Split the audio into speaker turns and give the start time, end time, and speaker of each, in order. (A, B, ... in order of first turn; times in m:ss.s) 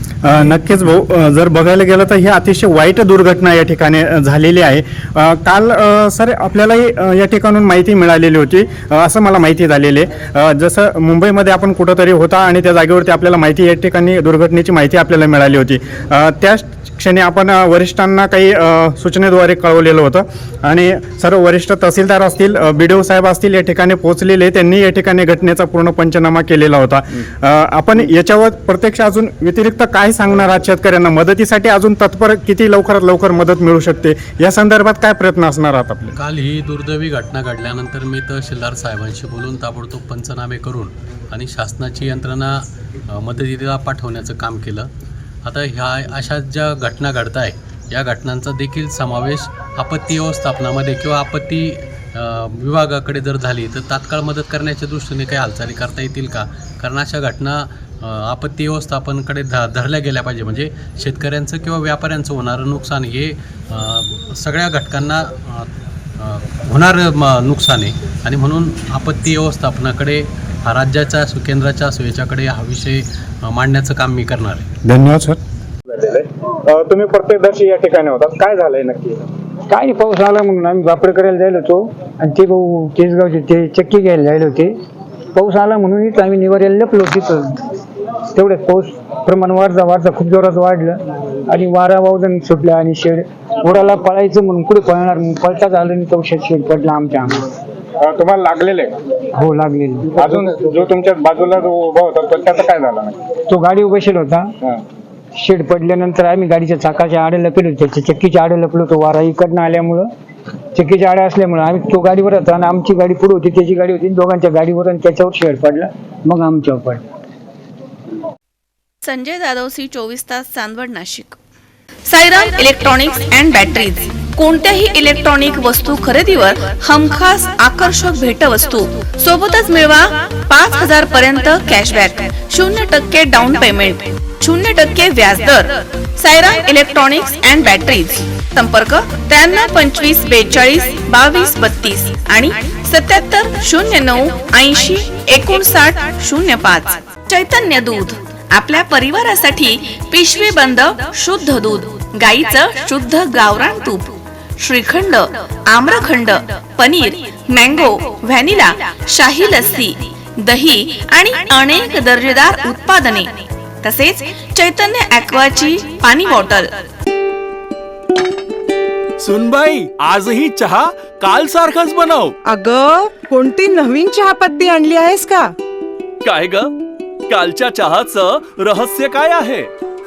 0:00.2-0:36.2 A
0:36.2-0:44.9 B
0:45.4-1:14.6 B
1:14.8-1:15.4 A
1:15.9-1:19.2 A
1:19.7-1:24.7 C
1:25.3-1:27.6 C
1:28.3-1:37.4 C
1:38.0-1:39.0 A
1:39.3-1:40.7 C
1:40.2-1:43.2 A
1:43.5-1:44.5 C
1:45.3-1:50.1 C
1:50.7-1:57.0 C
1:59.0-2:01.4 D
2:02.1-2:46.8 D
2:49.2-2:52.3 E
2:52.4-2:55.5 F
2:56.2-2:56.7 E
2:57.3-2:59.7 E